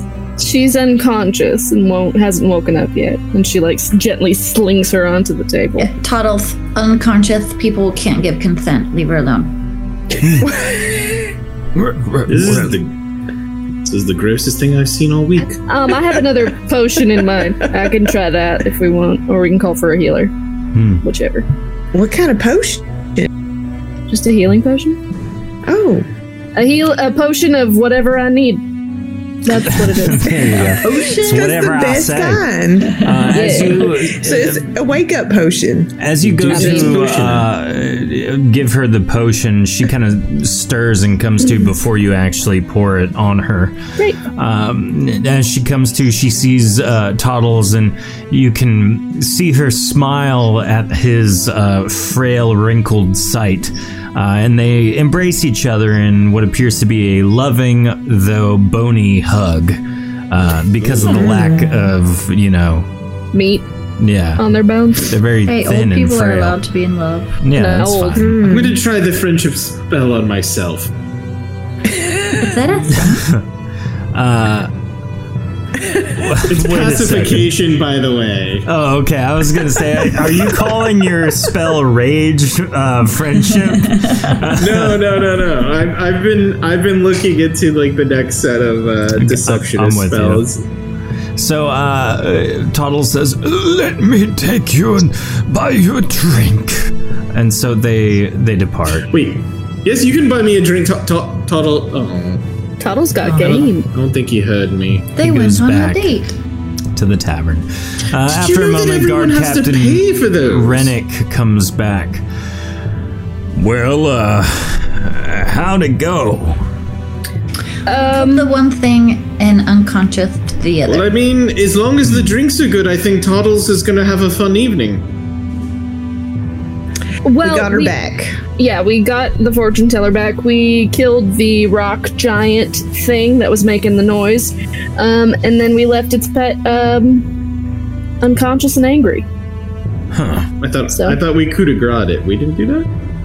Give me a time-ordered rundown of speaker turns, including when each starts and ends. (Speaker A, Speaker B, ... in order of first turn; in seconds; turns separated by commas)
Speaker A: 0.4-5.9, Speaker B: 5.8-9.5, Speaker C: 10.2-10.5, Speaker D: 10.3-11.3, Speaker C: 11.7-12.8, Speaker E: 12.3-12.9, Speaker E: 13.8-15.6, Speaker A: 15.7-20.3, Speaker C: 20.7-21.0, Speaker A: 21.0-21.4, Speaker D: 21.9-23.3, Speaker A: 24.1-25.0, Speaker D: 25.6-26.1, Speaker A: 26.6-28.6, Speaker A: 29.4-30.7, Speaker C: 29.5-34.7, Speaker D: 30.7-35.9, Speaker B: 30.8-31.6, Speaker B: 33.1-33.7, Speaker A: 33.3-33.9, Speaker C: 36.0-43.8, Speaker E: 36.2-37.5, Speaker A: 36.5-37.1, Speaker C: 44.3-59.8, Speaker C: 60.3-62.9, Speaker E: 60.8-61.2, Speaker D: 61.1-61.7, Speaker A: 63.3-63.6, Speaker C: 64.0-64.4, Speaker A: 64.4-65.1, Speaker C: 65.0-66.6, Speaker B: 65.5-67.3, Speaker C: 67.4-68.4, Speaker A: 67.5-68.3, Speaker D: 68.2-68.8, Speaker E: 68.4-70.9, Speaker D: 71.9-72.5, Speaker B: 72.3-73.3, Speaker C: 72.9-73.5, Speaker C: 74.1-74.7, Speaker C: 76.1-77.5, Speaker E: 76.4-78.7, Speaker C: 78.7-85.0, Speaker D: 80.0-80.3, Speaker B: 84.0-84.3, Speaker E: 84.5-90.6, Speaker C: 89.2-90.4, Speaker C: 91.3-99.1, Speaker E: 99.1-102.4, Speaker A: 102.8-103.9, Speaker B: 103.2-103.7, Speaker E: 103.9-105.1, Speaker B: 105.1-106.3, Speaker C: 105.2-106.2, Speaker C: 106.9-112.2, Speaker E: 108.2-110.9, Speaker C: 113.5-116.6, Speaker A: 117.8-118.5, Speaker B: 118.1-121.1, Speaker E: 120.8-125.0, Speaker C: 122.0-122.4, Speaker A: 127.2-127.9, Speaker D: 127.4-128.4, Speaker A: 128.6-137.2, Speaker A: 138.2-139.2, Speaker C: 140.1-140.5, Speaker E: 140.6-142.9, Speaker A: 140.9-141.2